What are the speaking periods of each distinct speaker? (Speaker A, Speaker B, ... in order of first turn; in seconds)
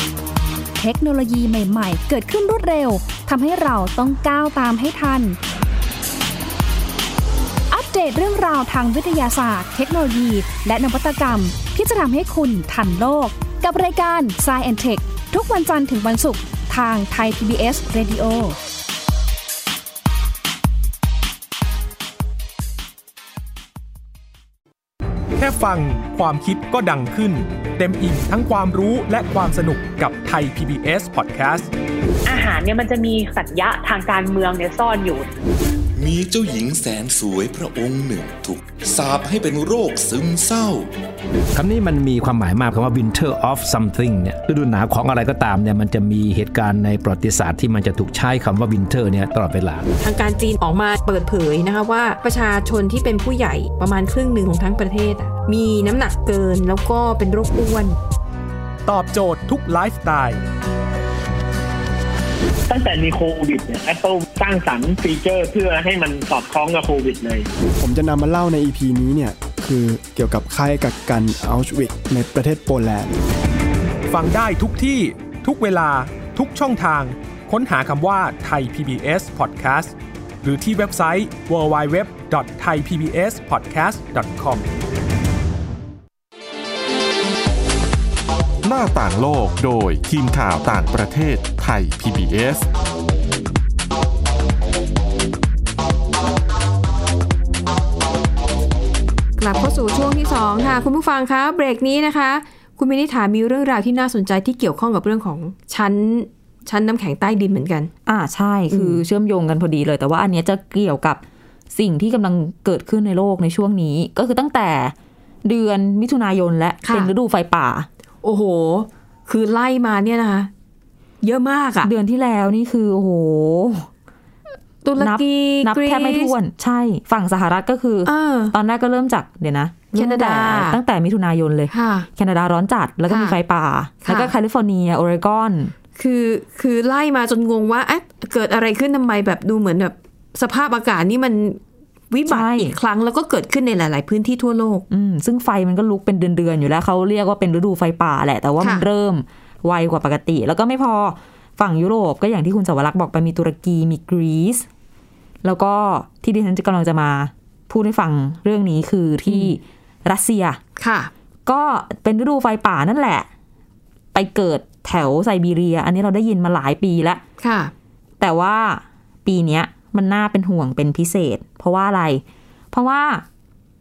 Speaker A: 0.8-5.4, 7.7-18.6
Speaker B: 25.4-31.7, 58.9-60.4, 74.1-84.7
Speaker C: 32.2-35.3
Speaker D: 36.0-40.9
Speaker E: 41.5-49.9
Speaker F: 50.0-58.0, 99.4-107.9, 108.7-109.0, 116.8-117.1, 118.2-120.5, 121.2-121.9, 124.8-126.3, 128.0-128.5, 129.9-130.8, 131.7-132.1, 133.1-133.3, 134.0-134.3, 135.9-144.8, 148.6-148.8, 160.8-161.1, 167.4-167.7
Speaker G: 62.7-67.5
Speaker H: 67.8-73.1
Speaker I: 88.6-92.7
Speaker J: 108.0-117.9, 121.8-123.9, 125.0-135.7, 142.3-142.8, 144.9-154.7, 155.4-160.6, 161.4-163.3, 164.1-167.2, 168.2-173.2